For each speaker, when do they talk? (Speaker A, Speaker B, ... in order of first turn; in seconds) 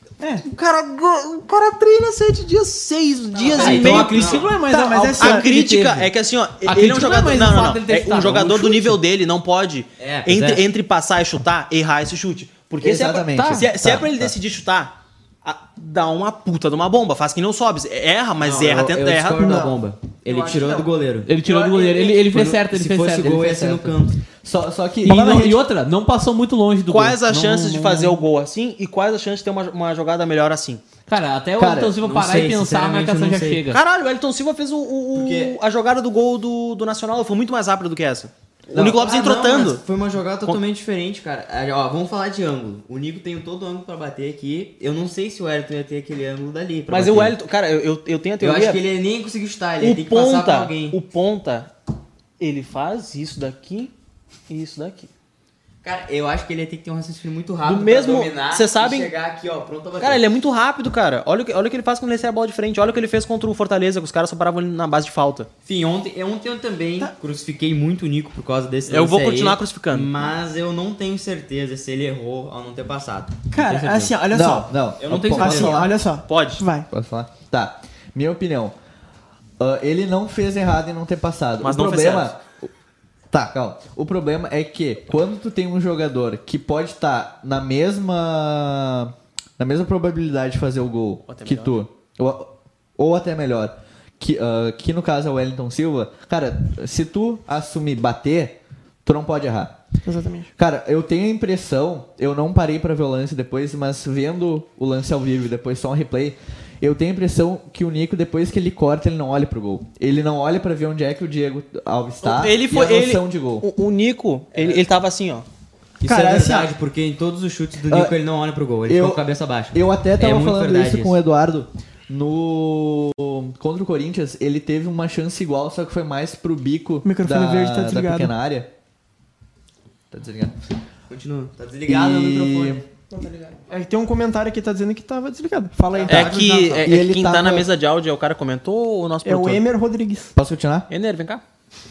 Speaker A: 0.4-4.6, 5.2-19.6, 20.2-20.9, 21.4-22.3, 26.9-30.8, 33.7-39.8, 46.9-48.8, 49.8-51.7, 52.4-53.9, 54.5-55.1, 57.6-59.1, 60.0-65.5, 68.9-70.1, 76.3-76.6, 81.6-82.3, 91.3-91.8, 112.2-115.5, 136.1-139.6, 140.9-141.4
Speaker B: 3.3-4.5, 10.0-10.7, 18.4-21.3, 22.3-24.2, 32.0-33.6, 35.1-35.6, 38.7-47.4, 48.4-51.0, 55.8-60.2, 65.7-74.1, 75.0-75.9, 114.5-114.8, 116.0-121.2, 131.1-132.8, 135.9-136.9
Speaker C: 3.5-6.0, 6.6-9.0, 13.3-13.7, 21.3-23.3, 25.0-28.2, 31.1-33.8
Speaker D: 4.6-5.7, 19.4-19.7, 25.1-25.6, 73.5-74.7, 75.2-76.9, 100.0-100.5, 116.0-116.7, 127.0-128.3, 133.1-136.4, 139.2-140.3
Speaker E: 12.8-14.3, 23.2-25.4, 31.6-31.9, 74.3-76.0, 76.9-78.7, 79.6-82.7, 83.3-99.8, 100.6-113.7, 117.9-118.1, 118.9-128.7, 130.1-130.5, 131.8-132.8, 136.8-137.7, 140.3-140.9